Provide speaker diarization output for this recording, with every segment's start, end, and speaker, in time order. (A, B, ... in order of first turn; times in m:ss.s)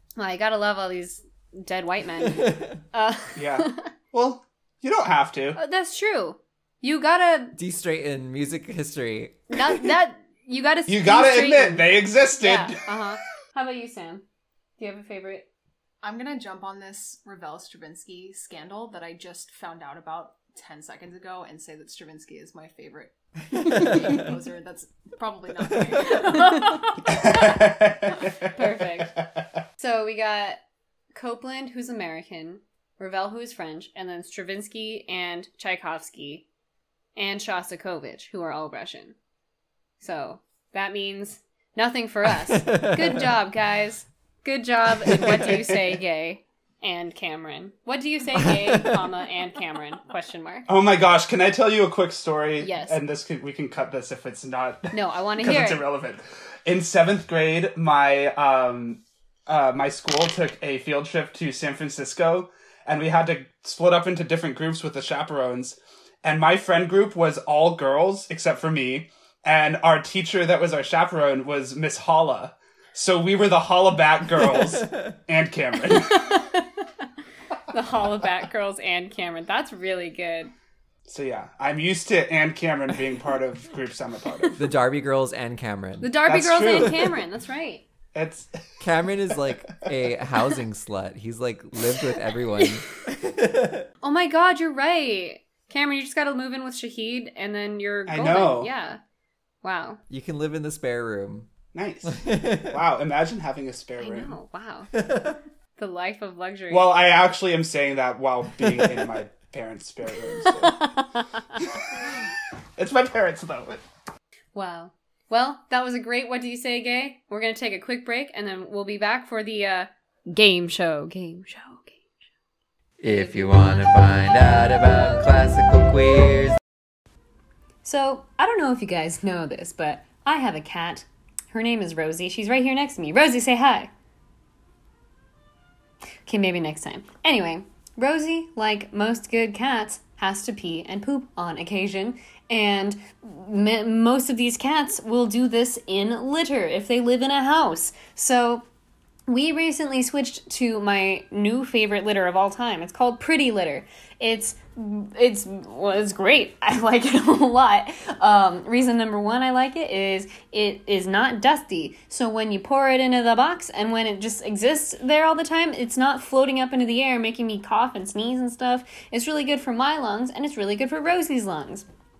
0:00.2-0:03.9 A
0:02.2-0:02.8 B
0:03.4-0:05.6 C
0:05.6-0:07.6 A
0:07.6-0:09.9 B
0:09.5-0:14.2 A
0:10.9-0:12.8 C
0:14.8-0:15.4 A
0:16.0-0:27.2 D
0:26.0-0:26.9 A
0:27.1-0:29.2 C
0:28.5-0:29.1 A
0:29.8-0:30.6 A
0:31.1-0:36.4 A
0:37.2-0:39.2 A
0:40.0-0:50.7 A
0:42.4-0:43.2 B
0:45.2-0:45.8 C
0:48.4-0:48.9 B
0:50.7-1:16.4 C
0:52.6-0:53.0 A
0:54.9-0:55.8 A
1:16.1-1:16.6 A
1:17.7-1:20.5 A
1:21.1-1:24.6 C
1:24.6-1:26.1 B
1:26.0-1:27.8 A
1:26.3-1:27.1 C
1:28.1-1:28.5 C
1:28.8-1:33.9 B
1:34.0-1:39.0 A
1:38.1-1:38.7 C
1:39.6-1:40.0 A
1:40.1-1:41.5 B
1:41.7-1:44.4 C
1:42.0-1:42.8 B
1:44.0-1:44.9 A
1:44.9-1:45.4 B
1:45.8-1:46.9 A
1:46.7-1:50.9 C
1:50.6-1:51.4 A
1:51.6-1:51.8 C
1:52.8-1:53.8 C
1:54.5-2:02.0 A
2:03.0-2:06.6 B
2:03.1-2:03.6 A
2:07.8-2:13.9 A
2:16.2-2:28.6 A
2:29.3-2:51.8 A